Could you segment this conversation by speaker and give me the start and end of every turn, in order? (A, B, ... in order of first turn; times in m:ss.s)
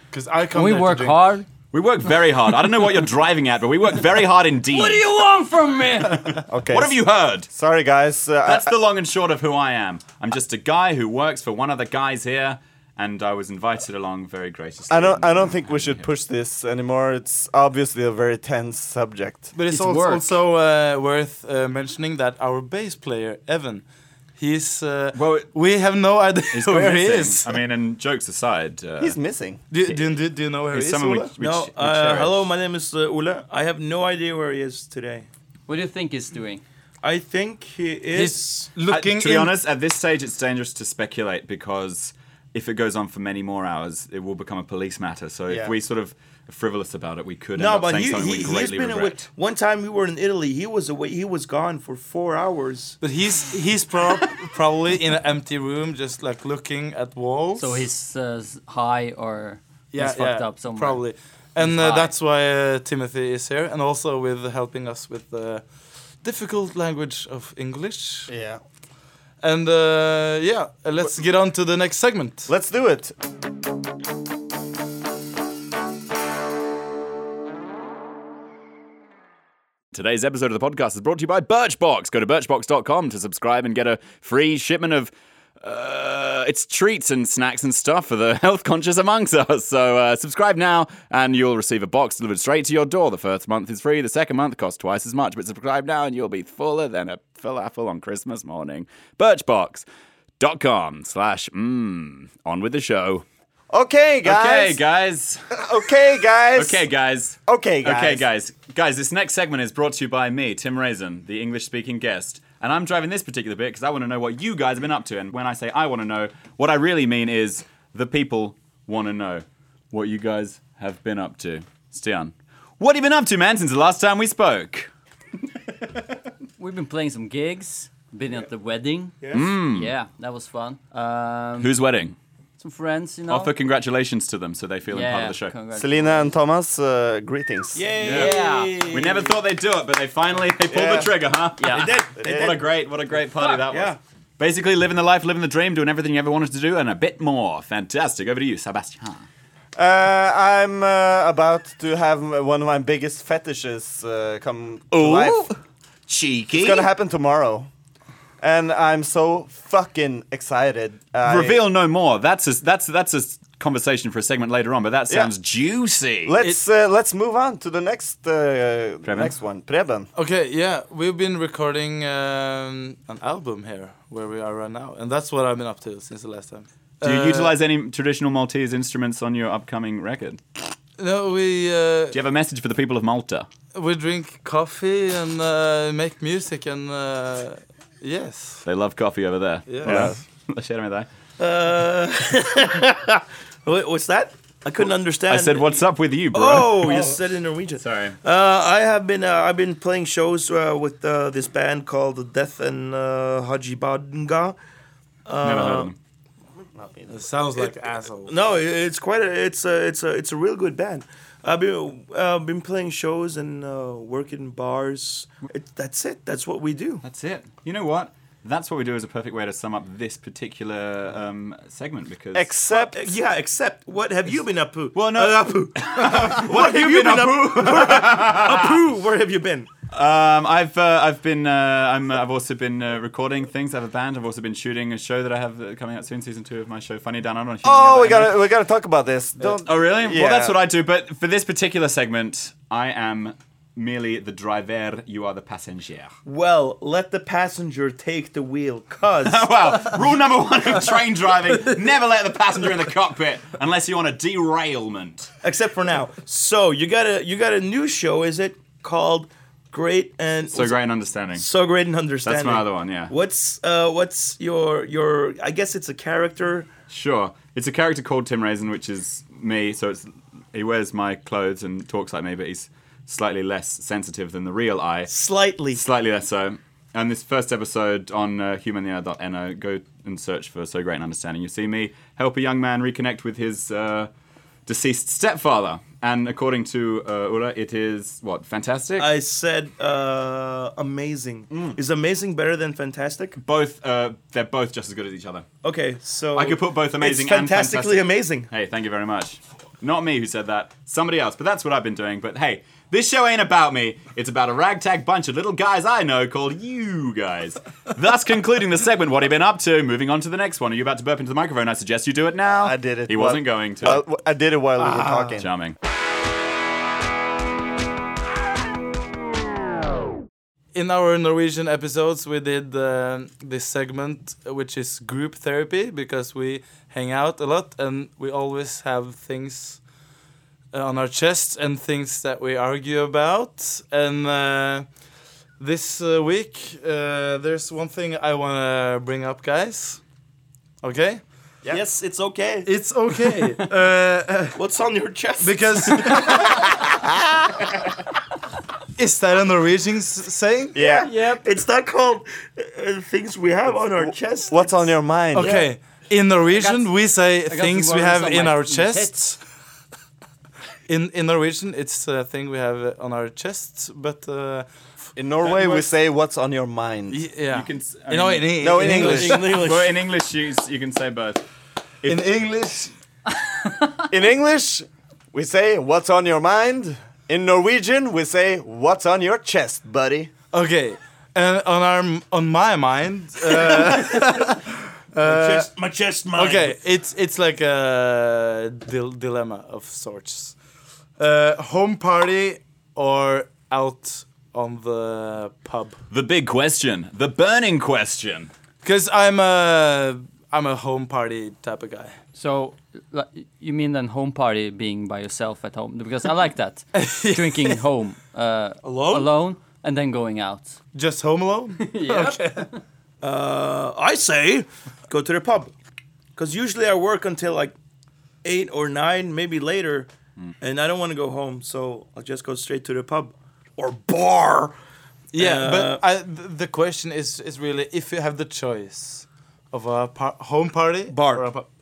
0:00.1-0:01.2 A
0:00.5-0:01.5 B
0:01.7-0:05.1 C
0:04.7-0:06.5 B
0:06.1-0:07.5 C
0:06.5-0:07.0 D
0:07.5-0:08.8 D
0:08.4-0:16.1 C
0:14.9-0:19.5 D
0:19.5-0:23.8 A
0:19.7-0:20.4 B
0:24.4-0:27.6 A
0:25.2-0:25.5 C
0:26.5-0:29.2 C
0:29.0-0:29.6 D
0:29.7-0:31.3 A
0:29.9-0:30.2 C
0:30.7-0:32.5 C
0:31.4-0:35.3 E
0:35.7-0:36.6 B
0:37.0-0:38.7 E
0:38.1-0:39.5 A
0:38.9-0:49.2 C
0:47.6-0:53.0 E
0:53.0-0:57.8 A
0:57.6-1:01.0 B
0:59.9-1:05.6 A
1:01.6-1:02.2 B
1:06.2-1:08.3 A
1:08.3-1:08.6 D
1:09.4-1:12.5 A
1:12.5-1:13.1 D
1:19.9-1:39.9 C
1:40.4-1:43.2 C
1:43.7-1:44.8 D
1:44.2-1:45.4 C
1:45.5-1:46.8 D
1:46.6-2:04.9 C
1:47.5-1:48.2 D
2:06.6-2:11.7 B
2:09.2-2:09.5 E
2:09.3-2:09.9 C
2:11.6-2:12.2 C
2:12.6-2:13.5 B
2:13.3-2:15.6 C
2:14.9-2:16.3 B
2:15.8-2:17.9 D
2:17.7-2:19.4 E
2:18.0-2:29.3 C
2:18.0-2:18.9 B
2:20.7-2:21.2 D
2:21.6-2:22.0 B
2:21.6-2:22.6 E
2:22.2-2:22.6 D
2:23.3-2:24.0 E
2:29.8-2:35.5 D
2:34.9-2:35.6 C
2:36.1-2:36.9 C
2:36.5-2:37.7 D
2:38.4-2:41.6 D
2:41.2-2:46.4 C
2:46.2-2:50.1 D
2:49.0-2:49.3 C
2:50.2-2:57.6 A
2:57.0-3:00.4 C
3:01.0-3:02.2 A
3:02.1-3:03.5 C
3:03.7-3:08.6 A
3:08.6-3:11.1 C
3:09.7-3:10.1 A
3:09.8-3:10.2 D
3:11.4-3:15.8 E
3:15.3-3:17.1 C
3:16.3-3:24.6 E
3:17.8-3:18.2 C
3:25.2-3:25.9 E
3:25.4-3:26.0 C
3:26.8-3:27.2 D
3:27.1-3:28.3 A
3:28.3-3:37.0 E
3:37.0-3:42.5 C
3:42.3-3:43.1 D
3:42.7-3:49.7 E
3:44.9-3:48.8 C
3:49.9-3:58.4 C
3:57.6-4:00.6 D
3:59.6-4:06.1 C
4:06.3-4:09.5 E
4:09.2-4:15.3 C
4:15.4-4:20.8 E
4:20.5-4:21.5 C
4:21.4-4:26.7 E
4:22.2-4:23.1 C
4:26.9-4:35.1 C
4:35.1-4:35.8 E
4:35.7-4:44.1 C
4:44.7-4:49.1 C
4:49.0-4:53.4 E
4:53.4-4:55.5 C
4:55.6-4:58.5 E
4:56.3-5:14.0 C
5:12.4-5:15.5 D
5:14.9-5:15.3 A
5:15.4-5:15.8 C
5:20.7-5:29.8 A
5:30.7-5:34.9 A
5:35.6-5:40.0 A
5:40.8-5:41.2 A
5:41.7-5:42.7 E
5:42.7-5:44.6 A
5:44.6-5:46.6 E
5:45.4-5:46.5 A
5:46.7-5:46.9 D
5:49.0-5:50.8 A
5:50.7-5:51.1 D
5:50.8-5:54.8 E
5:50.9-5:51.4 B
5:54.0-5:55.7 D
5:55.3-5:59.4 A
5:55.4-5:55.7 E
5:56.5-5:59.2 B
6:00.9-6:04.7 A
6:05.2-6:07.2 D
6:05.4-6:05.8 A
6:07.1-6:09.4 A
6:07.5-6:11.4 C
6:08.6-6:09.4 D
6:08.8-6:10.0 E
6:12.1-6:12.9 A
6:14.1-6:20.3 D
6:20.5-6:25.7 A
6:23.7-6:24.2 E
6:25.2-6:26.8 E
6:26.3-6:30.6 A
6:31.2-6:36.0 A
6:36.1-6:38.5 C
6:38.8-6:42.2 A
6:42.4-6:50.8 B
6:46.9-6:47.8 A
6:48.8-6:49.3 E
6:50.9-6:52.7 A
6:51.8-6:52.8 B
6:53.2-6:55.7 E
6:56.4-6:57.8 E
6:58.4-7:00.1 E
7:00.6-7:04.8 E
7:05.3-7:11.7 A
7:05.4-7:06.0 E
7:11.1-7:11.5 E